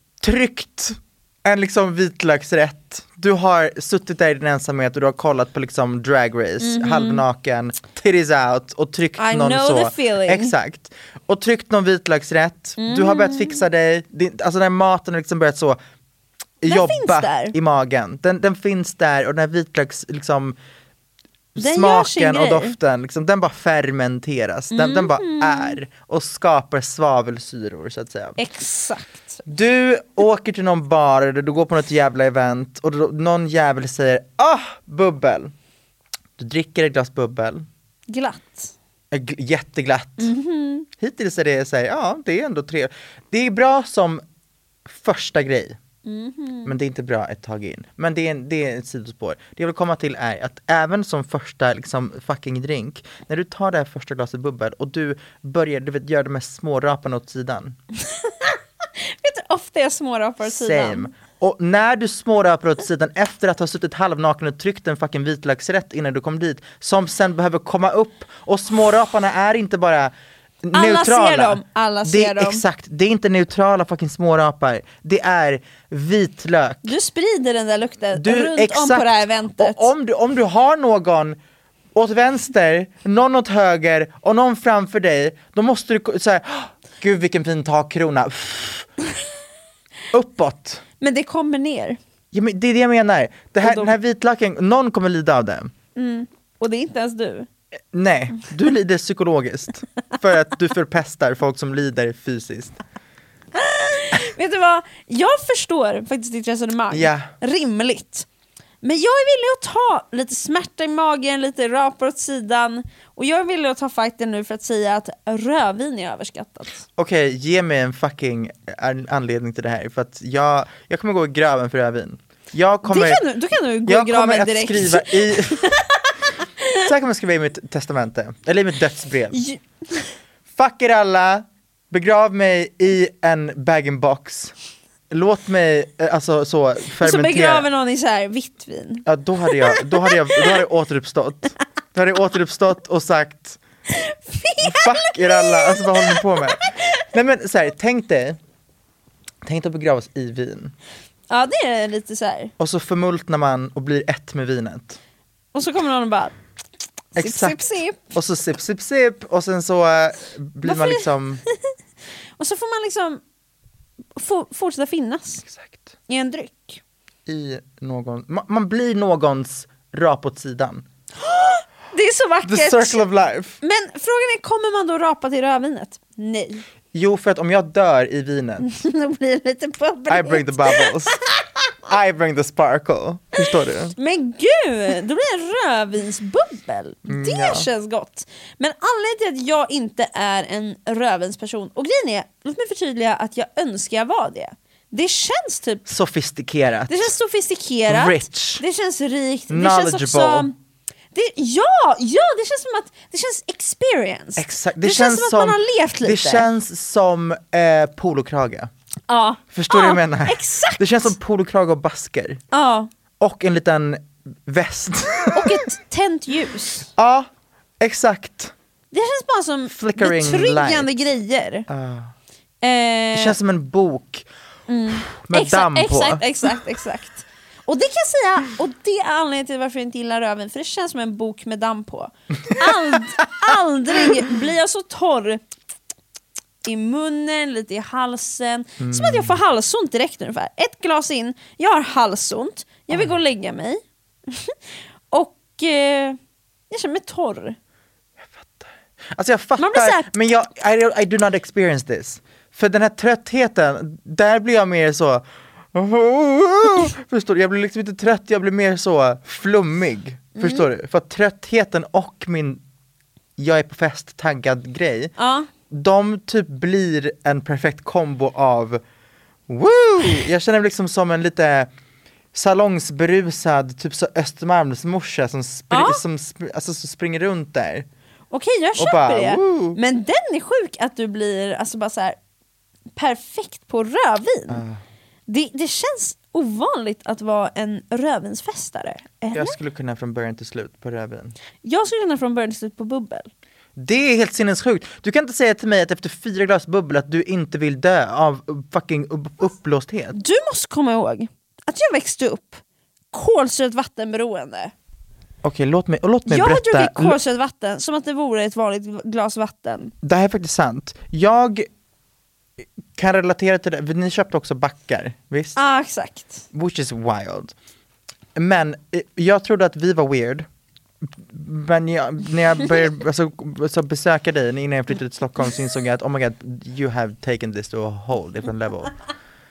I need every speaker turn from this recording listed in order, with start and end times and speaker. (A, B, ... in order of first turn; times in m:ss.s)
0:00.2-0:15.8 A
0:06.6-0:07.2 B
0:09.2-0:10.5 B
0:12.8-0:13.6 B
0:16.6-0:20.6 A
0:16.7-0:17.6 B
0:21.6-0:28.4 A
0:21.6-0:22.8 B
0:24.7-0:25.8 B
0:28.4-0:29.4 B
0:29.5-0:35.5 A
0:36.4-0:37.7 A
0:38.1-0:38.7 B
0:39.1-0:40.3 A
0:40.2-0:40.9 B
0:41.0-0:44.2 A
0:44.9-0:45.8 A
0:46.0-0:46.8 B
0:46.6-0:57.8 A
0:58.1-0:58.6 B
0:59.2-1:01.1 B
1:00.4-1:10.1 A
1:10.6-1:16.9 A
1:10.7-1:12.6 B
1:16.8-1:19.9 B
1:18.1-1:21.4 A
1:22.0-1:28.9 A
1:30.1-1:30.8 A
1:31.0-1:32.0 B
1:32.3-1:35.7 A
1:33.6-1:33.9 B
1:36.0-1:37.5 B
1:37.9-1:42.8 A
1:43.6-1:48.3 B
1:46.9-1:47.3 A
1:48.8-1:56.8 B
1:57.0-2:03.3 A
2:02.8-2:06.8 B
2:03.8-2:05.8 A
2:06.8-2:09.4 A
2:09.3-2:10.1 B
2:10.5-2:14.5 A
2:15.1-2:17.7 A
2:17.0-2:20.6 B
2:19.1-2:23.6 A
2:23.9-2:27.0 B
2:24.6-2:28.4 A
2:29.4-2:30.7 A
2:31.3-2:32.5 B
2:32.6-2:35.0 A
2:35.5-2:36.4 B
2:37.2-2:38.0 B
2:37.2-2:41.4 A
2:40.6-2:41.1 B
2:42.4-2:43.2 B
2:44.2-2:45.4 B
2:45.4-2:45.9 A
2:46.1-2:46.8 B
2:47.3-2:50.8 A
2:51.2-2:53.0 B
2:52.4-2:53.6 A
2:53.6-2:56.6 B
2:56.9-2:58.8 A
2:58.6-3:01.1 B
3:00.1-3:01.2 A
3:01.8-3:04.0 A
3:04.0-3:15.8 B
3:07.1-3:07.7 A
3:15.9-3:17.1 A
3:16.9-3:20.6 B
3:17.9-3:18.6 A
3:19.5-3:20.5 A
3:21.1-3:26.5 B
3:24.4-3:28.7 A
3:29.1-3:31.1 B
3:29.5-3:32.4 A
3:32.5-3:32.9 B
3:33.2-3:35.6 A
3:35.3-3:36.9 B
3:37.0-3:37.3 A
3:37.8-3:38.5 A
3:38.9-3:41.7 B
3:39.7-3:40.9 A
3:41.7-3:42.1 A
3:42.6-3:43.4 B
3:43.1-3:44.3 A
3:44.7-3:55.4 B
3:45.1-3:46.2 A
3:52.5-3:53.0 A
3:56.6-4:04.6 B
3:58.8-3:59.4 A
4:05.1-4:06.2 B
4:06.7-4:07.6 B
4:08.2-4:22.6 A
4:09.6-4:10.1 B
4:20.4-4:20.7 B
4:23.4-4:25.1 A
4:25.2-4:25.5 B
4:25.7-4:28.8 A
4:29.5-4:31.7 A
4:32.3-4:37.9 A
4:35.7-4:36.0 B
4:38.3-4:42.2 B
4:38.8-4:39.8 A
4:43.0-4:44.6 B
4:44.5-4:44.8 A
4:45.3-4:49.6 B
4:49.3-4:51.4 A
4:51.6-4:53.3 B
4:53.8-5:00.2 A
5:00.1-5:02.6 B
5:03.1-5:04.7 B
5:05.4-5:07.2 A
5:06.3-5:09.9 B
5:10.0-5:11.7 A
5:13.0-5:15.6 A
5:15.6-5:16.4 B
5:16.5-5:17.5 A
5:18.4-5:20.5 A
5:21.1-5:29.0 A